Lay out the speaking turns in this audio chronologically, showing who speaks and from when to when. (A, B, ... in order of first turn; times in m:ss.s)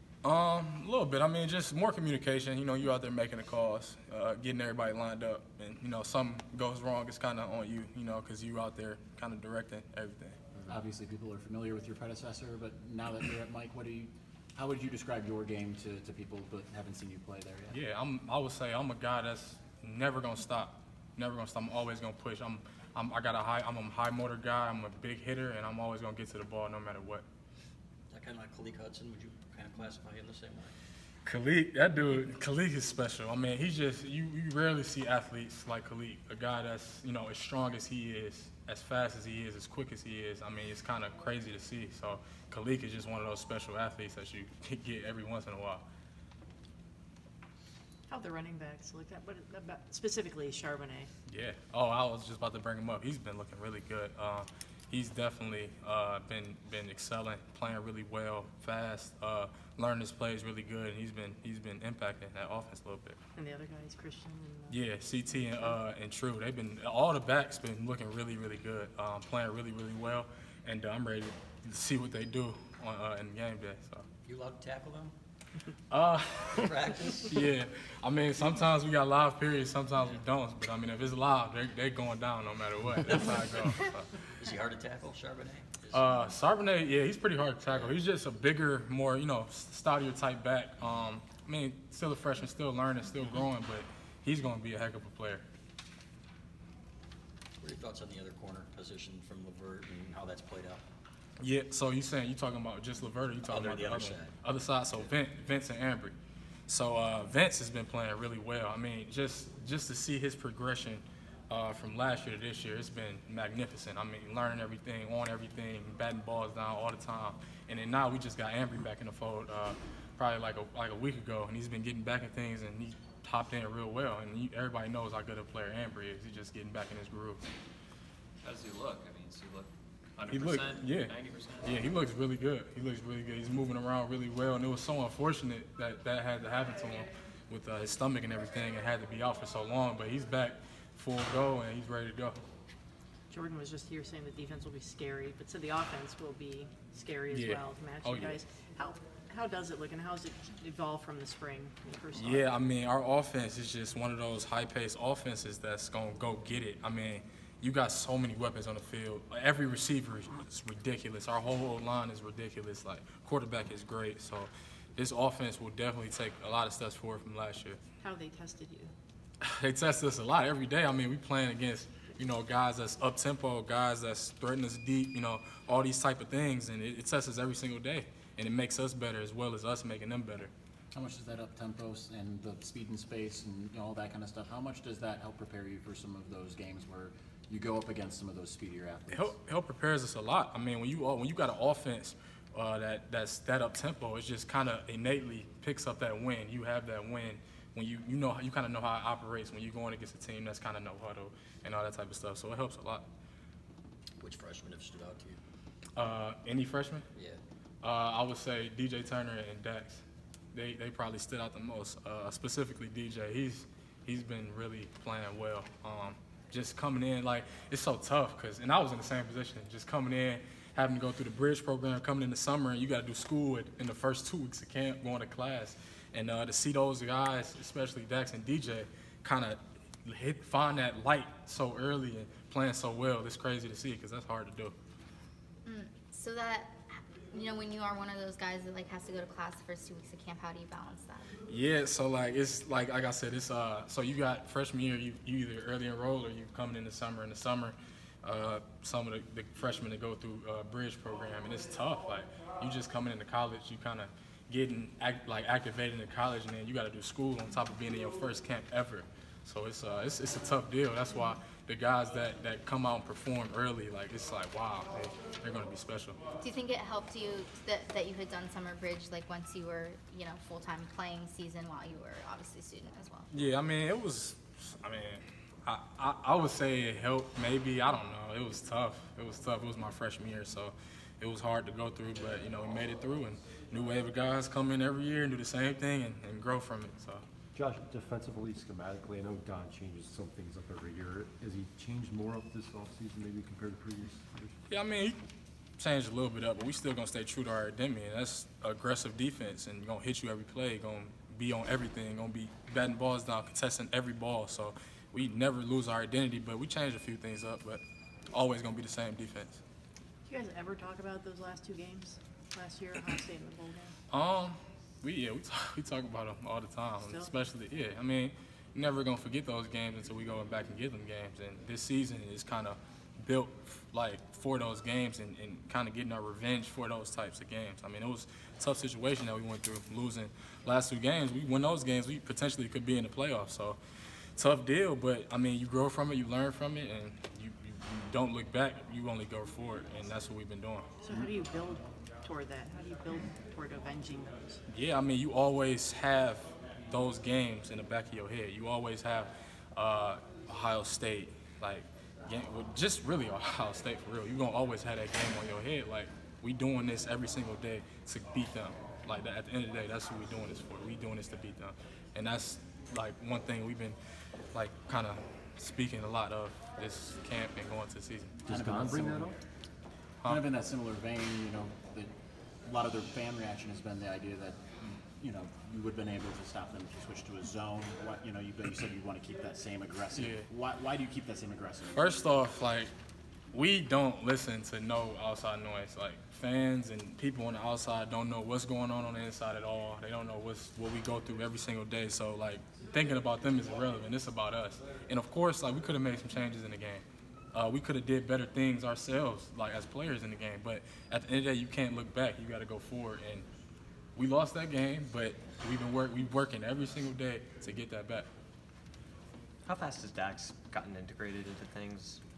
0:00.2-0:10.4 A
0:10.7-0:17.8 B
0:17.7-0:27.2 A
0:28.1-0:30.7 C
0:31.2-0:45.8 A
0:48.1-0:51.1 D
0:51.3-1:03.2 A
1:03.4-1:04.8 D
1:04.7-1:14.1 A
1:14.2-1:15.1 C
1:15.9-1:16.7 A
1:16.5-1:17.5 C
1:17.2-1:24.1 A
1:24.4-1:26.2 C
1:25.9-1:35.4 A
1:27.7-1:28.0 C
1:37.6-1:40.8 C
1:41.4-1:46.2 A
1:43.5-1:44.3 C
1:46.7-2:07.4 A
2:08.4-2:12.0 E
2:10.3-2:22.4 A
2:23.3-2:32.5 D
2:27.3-2:28.4 A
2:32.2-2:47.8 A
2:48.0-2:48.9 D
2:49.4-3:00.5 A
3:00.9-3:09.3 B
3:09.1-3:23.1 A
3:24.2-3:25.4 C
3:26.0-3:27.1 A
3:27.2-3:27.4 C
3:27.8-3:30.0 A
3:30.5-3:54.8 A
3:55.6-4:01.3 F
4:01.5-4:26.2 A
4:26.4-4:33.3 F
4:33.3-4:47.2 A
4:47.6-4:54.6 G
4:54.7-4:55.2 A
4:55.8-5:09.6 A
5:10.3-5:14.0 D
5:14.1-5:33.8 A
5:17.0-5:17.3 D
5:34.4-5:40.9 A
5:41.0-5:44.6 D
5:44.7-6:04.0 A
6:04.5-6:08.4 A
6:08.5-6:09.4 G
6:08.5-6:09.4 B
6:10.2-6:12.1 B
6:12.6-6:22.0 B
6:20.2-6:20.5 A
6:21.9-6:22.9 A
6:23.5-6:43.5 A
6:44.2-6:48.3 A
6:49.6-6:52.2 H